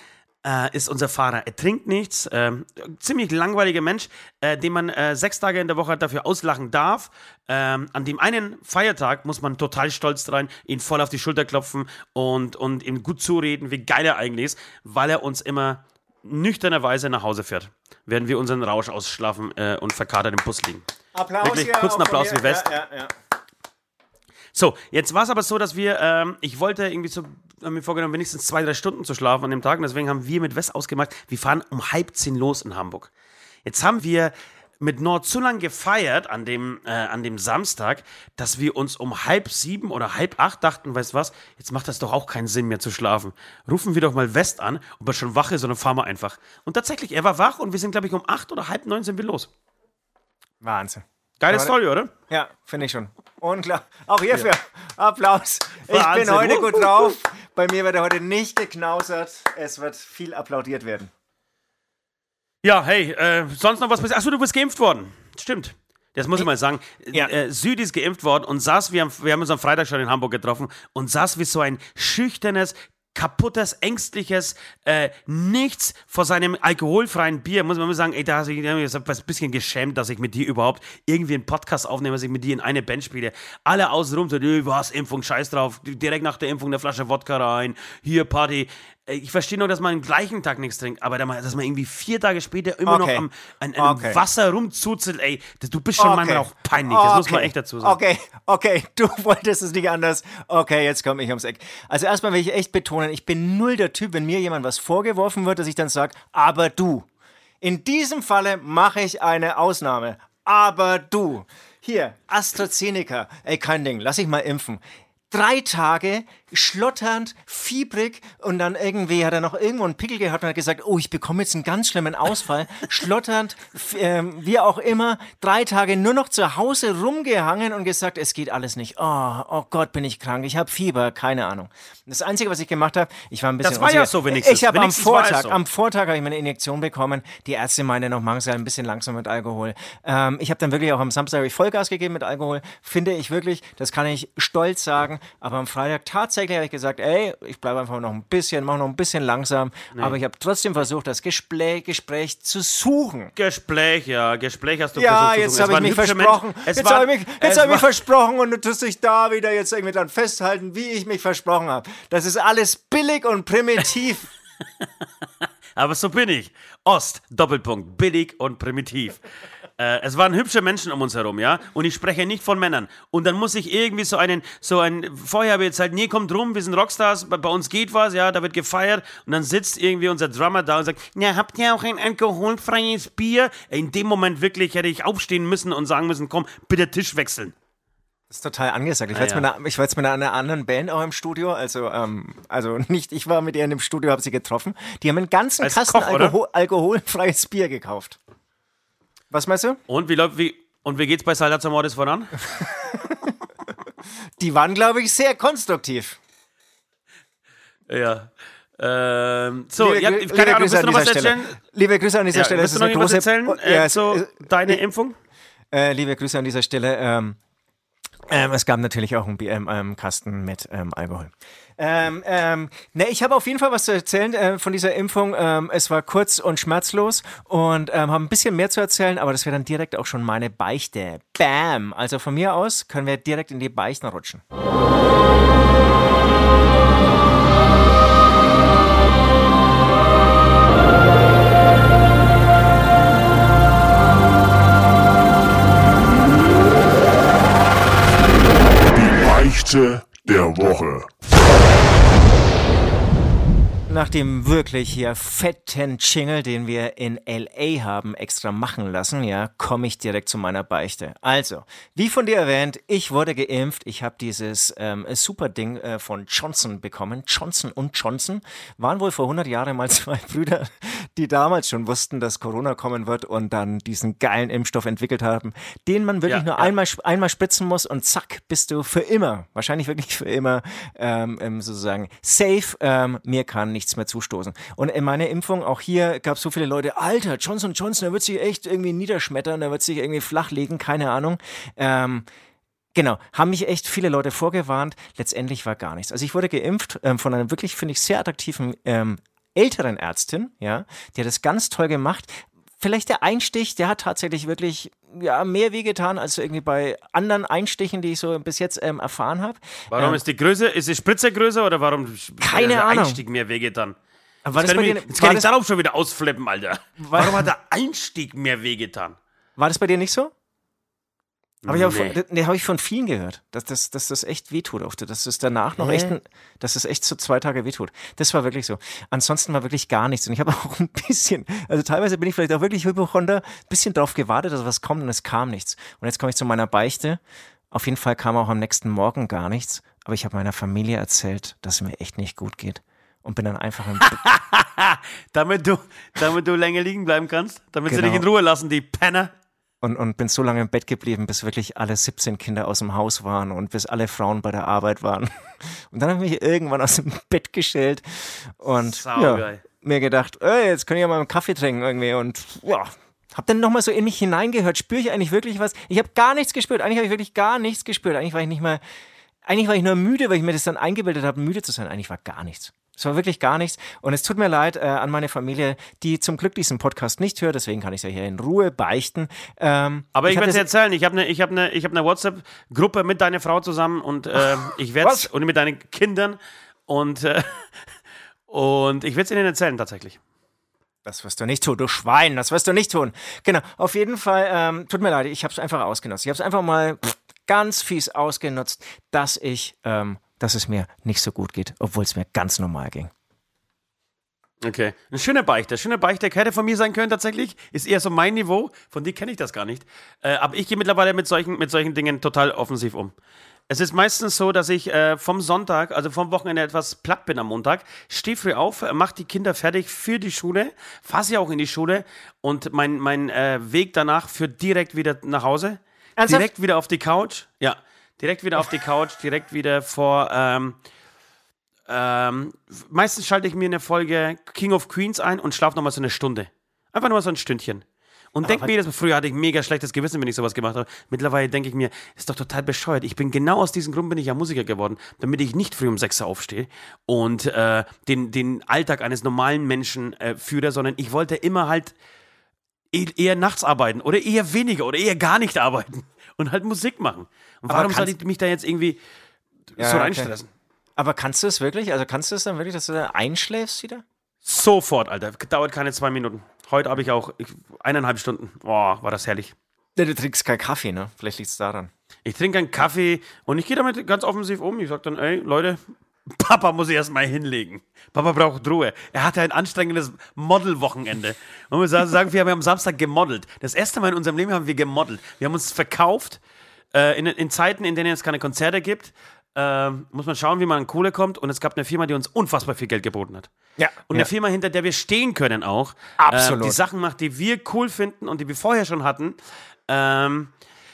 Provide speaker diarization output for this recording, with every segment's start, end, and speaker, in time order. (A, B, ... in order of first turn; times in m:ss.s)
0:00.4-0:20.8 A
0:21.1-0:23.1 B
0:21.4-0:22.7 A
0:24.5-0:33.1 A
0:33.6-0:49.5 A
0:50.6-0:51.7 B
0:51.4-0:52.1 A
0:52.3-1:01.1 B
0:55.9-0:57.2 A
1:02.6-1:38.0 A
1:32.9-1:33.3 B
1:33.8-1:34.2 B
1:36.0-1:47.1 B
1:47.6-2:33.3 B
2:13.6-2:15.6 A
2:33.4-2:37.9 A
2:35.0-2:44.3 B
2:45.8-2:49.2 A
2:49.8-3:07.5 A
3:08.3-3:18.2 B
3:09.1-3:09.5 A
3:15.6-3:16.4 A
3:19.3-3:19.8 B
3:19.9-3:22.4 A
3:22.9-3:23.3 B
3:24.4-3:26.2 B
3:27.9-3:31.6 A
3:29.8-3:34.8 B
3:32.3-3:35.2 A
3:35.7-3:37.4 B
3:38.3-3:54.4 B
4:08.9-4:11.1 C
4:13.9-4:52.3 B
4:36.3-4:36.7 A
4:53.0-5:10.2 B
5:09.9-5:14.0 A
5:12.4-5:13.2 B
5:14.4-5:15.5 B
5:14.6-5:19.2 A
5:17.0-5:17.5 B
5:19.6-5:20.3 B
5:21.6-5:22.2 A
5:21.7-5:37.2 B
5:25.8-5:26.1 A
5:37.7-5:44.2 B
5:44.1-5:49.3 A
5:47.9-5:48.2 B
5:49.8-6:08.8 B
5:58.8-5:59.6 A
6:09.4-6:20.7 B
6:20.2-6:27.6 A
6:25.0-6:25.3 B
6:28.5-6:30.2 A
6:31.0-6:43.1 B
6:44.6-6:53.1 A
6:53.7-7:10.8 A
7:06.2-7:06.5 B
7:11.9-7:32.0 A
7:18.4-7:18.7 B
7:32.9-7:39.0 A
7:37.7-7:38.1 B
7:39.8-7:40.5 A
7:39.8-7:40.3 B
7:41.0-7:44.0 B
7:44.4-7:49.5 A
7:50.0-7:51.9 B
7:52.2-8:06.4 A
8:06.9-8:13.5 A
8:13.8-8:14.3 B
8:14.1-8:19.4 A
8:16.2-8:16.8 B
8:19.9-8:20.5 A